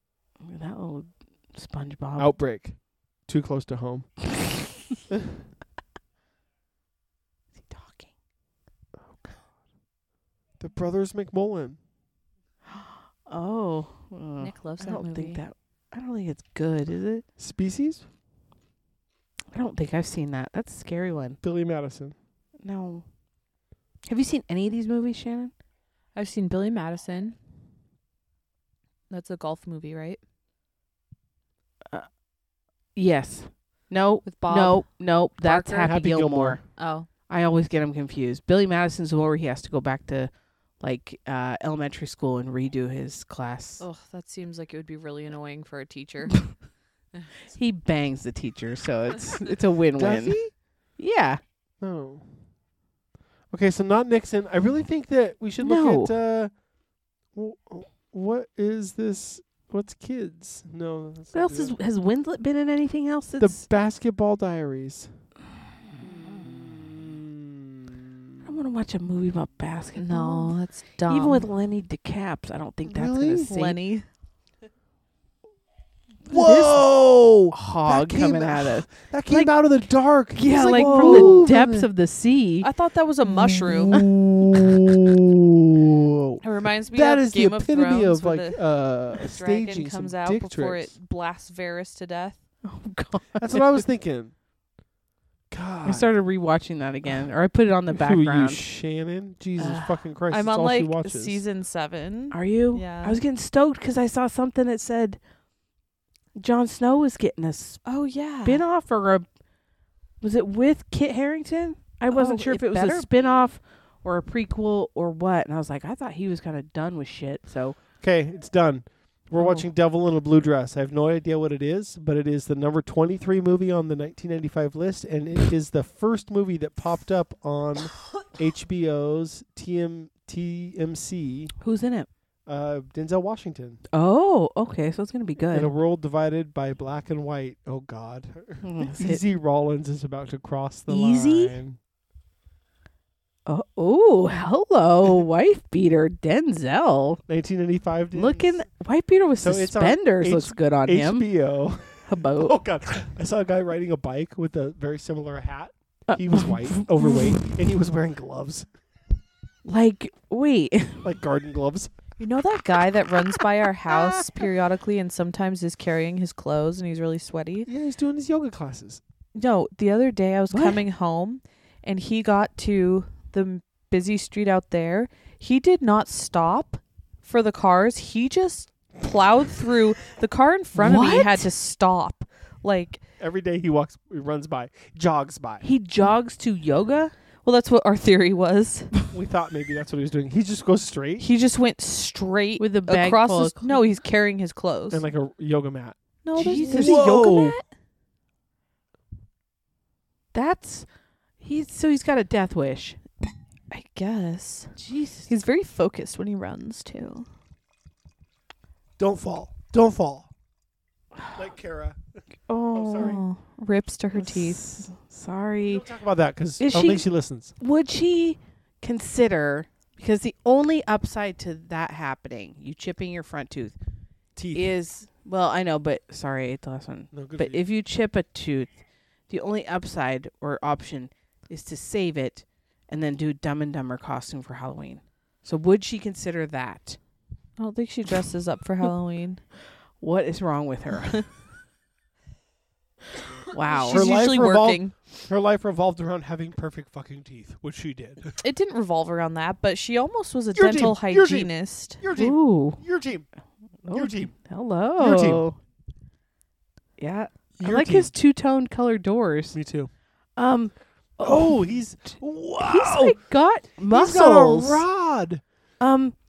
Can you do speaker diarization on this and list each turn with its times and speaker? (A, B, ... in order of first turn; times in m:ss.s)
0:00.4-0:02.3 A
0:02.2-0:04.1 B
0:05.1-0:05.4 B
0:07.5-0:08.1 A
0:10.6-0:11.8 B
0:12.7-0:17.2 A
0:14.4-0:15.4 C
0:17.4-0:18.0 B
0:19.5-0:21.4 A
0:21.4-0:22.1 B
0:22.6-0:23.0 A
0:24.1-0:25.5 A
0:26.1-0:27.4 C
0:29.1-0:30.2 C
0:32.9-0:36.6 A
0:34.2-0:34.9 C
0:35.4-0:35.9 C
0:35.8-0:36.6 B
0:36.8-0:37.1 C
0:37.3-0:43.8 A
0:43.8-0:46.5 C
0:47.5-0:50.4 A
0:50.0-0:50.5 B
0:51.0-0:51.4 A
0:51.8-0:52.3 B
0:53.5-0:56.5 B
0:55.6-0:56.1 A
0:57.3-1:01.8 B
1:01.3-1:03.6 A
1:03.4-1:05.1 B
1:06.0-1:08.5 B
1:08.4-1:10.5 A
1:10.0-1:11.5 C
1:11.1-1:13.8 A
1:12.8-1:13.5 B
1:13.5-1:14.0 C
1:16.3-1:21.9 B
1:16.3-1:16.9 A
1:17.5-1:19.5 A
1:20.3-1:22.7 A
1:20.5-1:21.4 C
1:22.6-1:24.0 C
1:23.4-1:24.1 A
1:23.7-1:30.9 B
1:26.4-1:28.6 C
1:29.2-1:32.4 C
1:32.6-1:33.8 A
1:33.4-1:34.3 B
1:35.5-1:36.1 B
1:35.8-1:38.6 A
1:37.9-1:41.4 B
1:39.6-1:40.0 A
1:40.3-1:43.2 C
1:42.3-1:45.2 A
1:46.4-1:47.8 A
1:47.8-1:48.6 C
1:48.4-1:49.2 A
1:50.2-1:57.8 A
1:52.1-1:53.3 C
1:58.0-2:11.5 B
2:11.6-2:12.1 A
2:12.5-2:13.8 B
2:13.9-2:15.7 A
2:15.5-2:21.8 B
2:18.6-2:19.2 A
2:20.9-2:21.5 A
2:23.4-2:27.2 A
2:27.3-2:28.6 B
2:28.1-2:31.3 A
2:29.4-2:38.7 B
2:32.0-2:32.5 A
2:36.1-2:37.4 A
2:39.6-2:41.1 A
2:41.0-2:41.9 B
2:42.2-2:47.7 C
2:47.6-2:49.0 B
2:49.3-3:03.0 C
2:50.5-2:50.8 A
3:00.7-3:01.5 A
3:03.2-3:05.7 B
3:05.6-3:07.1 A
3:07.4-3:08.9 C
3:09.1-3:11.3 B
3:11.2-3:15.0 C
3:12.6-3:13.7 A
3:14.9-3:17.6 B
3:16.2-3:17.6 C
3:16.4-3:17.2 A
3:20.3-3:20.8 A
3:21.4-3:23.0 A
3:23.7-3:24.7 C
3:24.8-3:25.3 A
3:25.3-3:27.3 C
3:29.0-3:30.3 B
3:31.3-3:32.2 B
3:32.5-3:33.2 A
3:32.7-3:33.2 B
3:32.7-3:34.7 C
3:34.1-3:35.8 A
3:35.6-3:37.5 B
3:36.6-3:37.0 A
3:37.6-3:43.7 A
3:44.4-3:44.7 B
3:44.5-3:48.7 A
3:47.1-3:47.6 B
3:49.3-3:57.0 A
3:57.6-3:59.4 C
4:00.0-4:01.3 A
4:03.5-4:04.0 A
4:03.7-4:04.9 C
4:03.9-4:08.4 B
4:08.4-4:12.0 C
4:10.5-4:13.3 B
4:12.1-4:12.8 A
4:13.8-4:15.6 A
4:13.9-4:14.3 B
4:15.0-4:15.4 B
4:17.0-4:19.6 A
4:17.6-4:18.1 B
4:19.5-4:19.9 B
4:20.4-4:24.8 A
4:21.2-4:23.2 B
4:23.9-4:25.4 B
4:25.8-4:26.2 A